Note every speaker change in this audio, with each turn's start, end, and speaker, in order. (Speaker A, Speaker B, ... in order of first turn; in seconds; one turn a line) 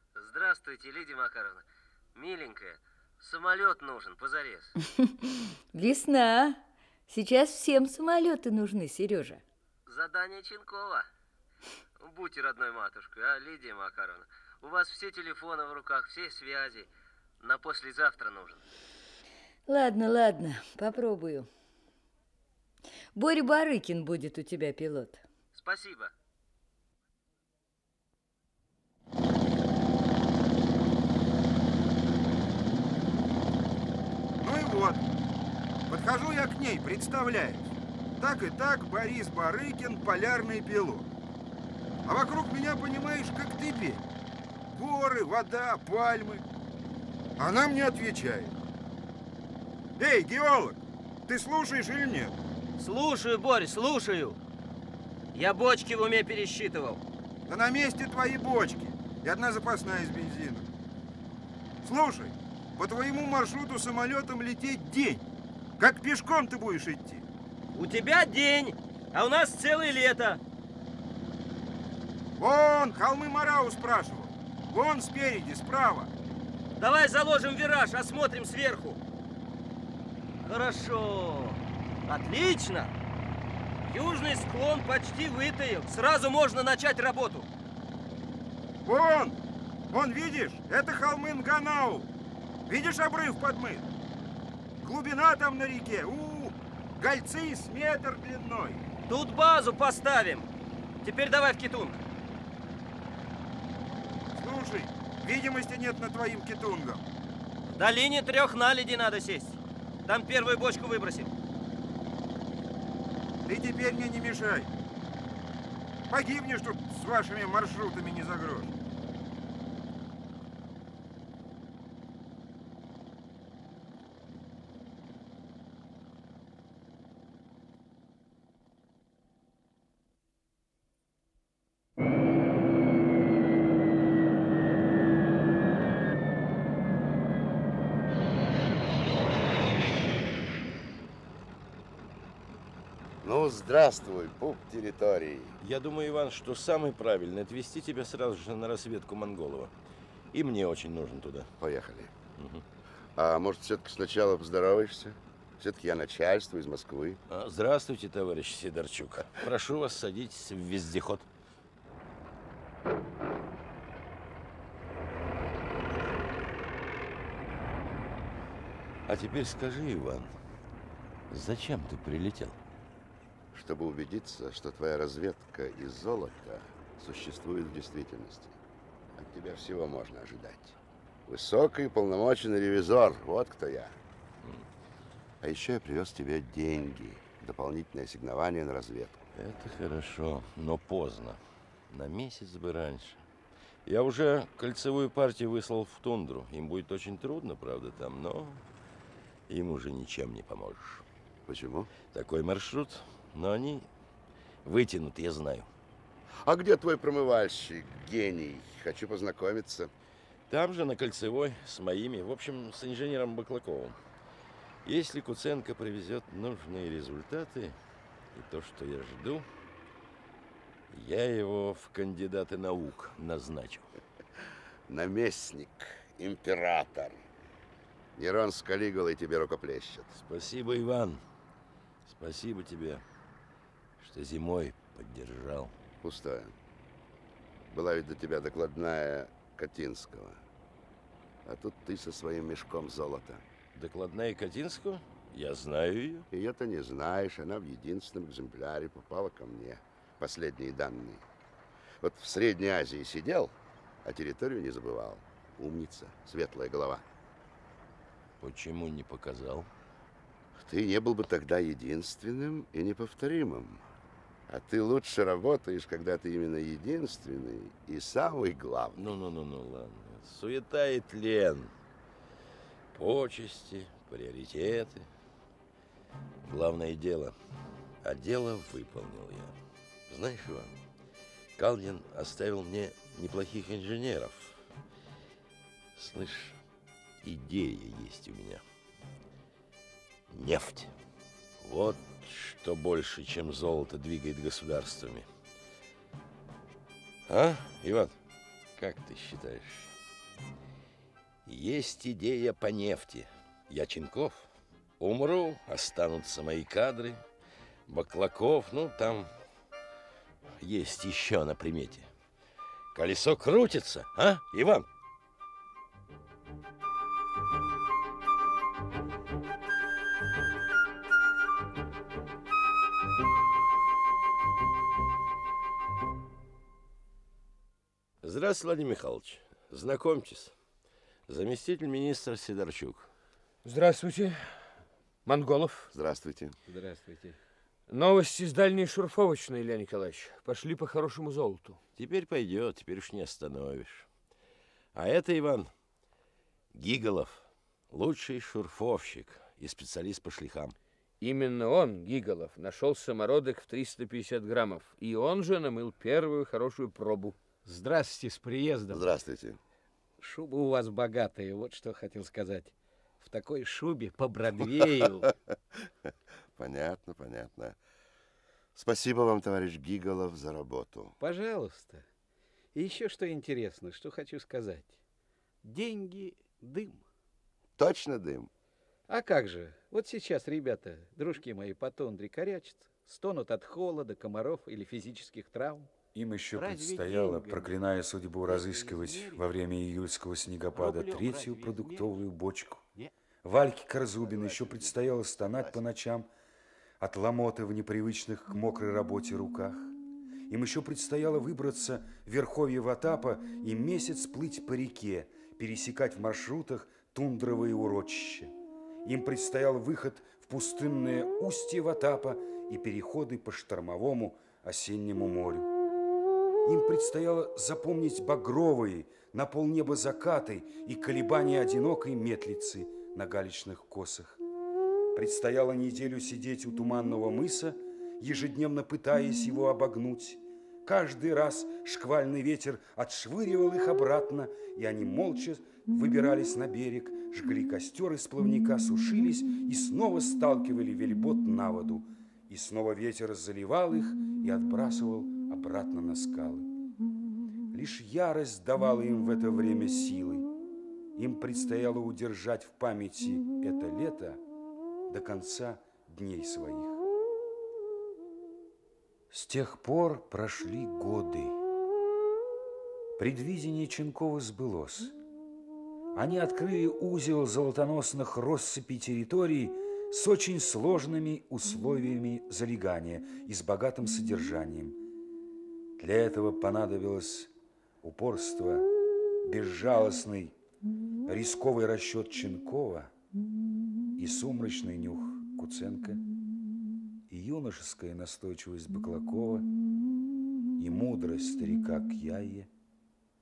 Speaker A: 0.1-4.7
Speaker B: 5.0-9.4
Speaker A: 9.8-11.1
Speaker A: 12.0-16.9
Speaker A: 17.4-18.6
Speaker B: 19.7-21.5
Speaker B: 23.1-25.2
Speaker A: 25.5-26.1
Speaker C: 34.4-35.0
Speaker C: 35.9-41.1
Speaker C: 42.0-44.0
Speaker C: 44.7-46.4
Speaker C: 47.4-48.5
Speaker C: 50.0-52.4
Speaker A: 52.8-54.4
Speaker A: 55.3-57.0
Speaker C: 57.5-60.7
Speaker C: 61.8-65.2
Speaker C: 65.8-67.2
Speaker A: 67.7-70.4
Speaker C: 72.4-76.1
Speaker A: 76.8-79.0
Speaker A: 80.4-82.9
Speaker A: 83.8-87.5
Speaker C: 88.8-89.4
Speaker C: 89.9-92.1
Speaker C: 92.7-93.9
Speaker C: 94.8-98.8
Speaker A: 99.1-100.5
Speaker A: 101.0-102.0
Speaker C: 104.3-107.0
Speaker A: 107.7-111.3
Speaker C: 113.5-114.7
Speaker C: 116.1-118.7
Speaker D: 143.2-145.5
Speaker E: 145.6-149.7
Speaker E: 150.3-151.5
Speaker D: 151.6-152.1
Speaker E: 152.4-152.6
Speaker D: 153.2-157.2
Speaker E: 157.3-161.2
Speaker E: 169.1-170.3
Speaker E: 171.3-172.6
Speaker D: 173.5-178.6
Speaker D: 179.2-180.8
Speaker D: 181.3-183.9
Speaker D: 185.4-189.2
Speaker E: 189.3-193.2
Speaker E: 193.8-198.6
Speaker E: 199.5-201.0
Speaker D: 201.5-201.9
Speaker E: 202.1-203.9
Speaker E: 204.6-205.7
Speaker D: 206.4-209.9
Speaker E: 210.5-213.9
Speaker E: 214.8-217.8
Speaker E: 218.3-219.5
Speaker E: 220.9-223.9
Speaker D: 224.9-227.2
Speaker D: 228.2-230.1
Speaker E: 230.1-231.2
Speaker E: 232.1-233.0
Speaker E: 234.0-235.7
Speaker D: 236.0-236.5
Speaker D: 237.7-240.4
Speaker D: 241.4-243.4
Speaker E: 243.7-246.3
Speaker D: 246.3-251.2
Speaker D: 252.0-253.5
Speaker D: 254.0-257.0
Speaker E: 258.4-259.7
Speaker D: 260.6-263.8
Speaker D: 264.5-269.1
Speaker E: 268.9-271.7
Speaker E: 272.9-275.1
Speaker E: 276.4-277.4
Speaker E: 278.0-279.6
Speaker E: 280.1-280.8
Speaker E: 281.6-284.7
Speaker E: 285.9-286.6
Speaker E: 287.2-288.6
Speaker E: 290.3-290.9
Speaker E: 291.6-295.2
Speaker E: 297.3-298.1
Speaker E: 298.8-299.9
Speaker E: 301.4-304.5
Speaker E: 305.0-307.2
Speaker E: 307.9-309.3
Speaker E: 310.6-312.1
Speaker E: 312.9-314.9
Speaker E: 328.2-330.5
Speaker E: 331.3-333.1
Speaker F: 333.6-334.6
Speaker F: 335.2-335.9
Speaker D: 335.9-336.6
Speaker G: 336.6-337.4
Speaker F: 337.9-341.8
Speaker E: 342.0-344.1
Speaker E: 344.9-345.7
Speaker E: 346.7-350.7
Speaker F: 351.2-357.4
Speaker G: 357.6-359.1
Speaker D: 358.9-359.6
Speaker G: 360.2-365.3
Speaker D: 366.6-367.8
Speaker D: 368.7-371.1
Speaker G: 371.2-372.0
Speaker G: 372.7-375.0
Speaker G: 375.6-377.0
Speaker D: 377.8-378.5
Speaker G: 379.1-385.9
Speaker H: 386.1-392.8
Speaker G: 386.5-387.8
Speaker G: 388.4-389.4
Speaker G: 390.7-392.2
Speaker H: 393.4-396.3
Speaker D: 394.2-395.0
Speaker H: 397.0-399.9
Speaker H: 400.5-408.5
Speaker H: 409.0-415.7
Speaker H: 416.6-424.4
Speaker H: 425.1-446.7
Speaker H: 447.7-450.5
Speaker H: 451.2-454.4
Speaker H: 455.1-457.0
Speaker H: 459.3-461.6
Speaker H: 463.2-465.1
Speaker H: 466.1-475.0
Speaker H: 476.0-477.5
Speaker H: 478.0-478.9
Speaker H: 479.4-480.5
Speaker H: 481.3-483.1
Speaker H: 484.2-486.2
Speaker H: 487.3-489.7
Speaker H: 490.8-492.7